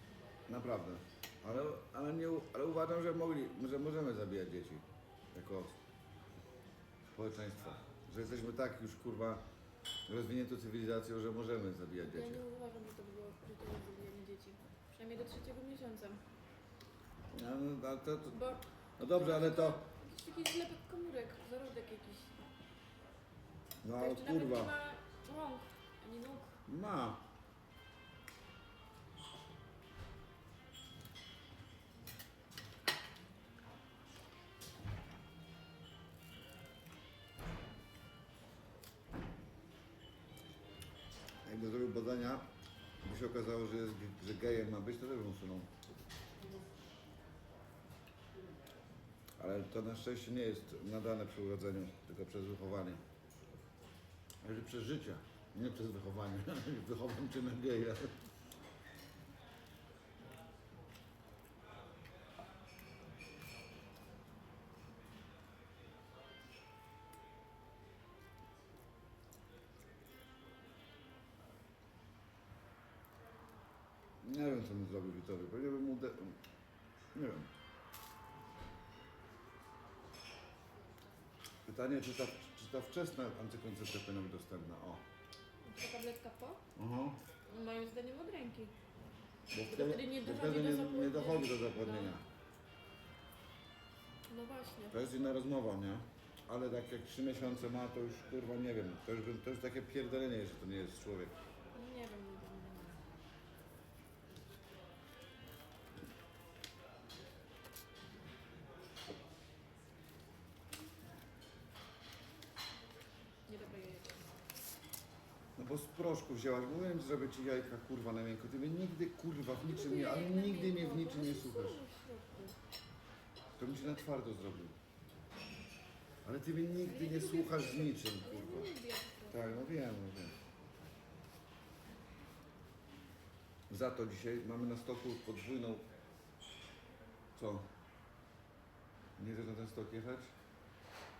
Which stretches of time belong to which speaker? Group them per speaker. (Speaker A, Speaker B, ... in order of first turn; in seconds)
Speaker A: 0.5-5.8, 7.1-9.4, 10.1-12.4, 17.3-18.4, 19.0-19.8, 23.8-24.7, 26.7-27.2, 41.4-42.5, 43.0-45.7, 49.4-53.0, 54.4-58.2, 74.2-76.4, 77.1-77.5, 81.7-85.0, 86.7-87.2, 89.5-92.2, 94.9-101.4, 115.5-121.8, 123.6-124.8, 126.2-128.7, 129.3-130.3, 133.7-135.9, 137.3-137.7, 139.2-140.3
Speaker B: 12.0-16.2, 18.3-22.4, 23.9-26.6, 85.6-86.6, 87.5-88.7, 89.7-92.1, 94.3-95.0, 101.7-103.0, 113.5-114.2, 119.6-122.5, 126.8-129.7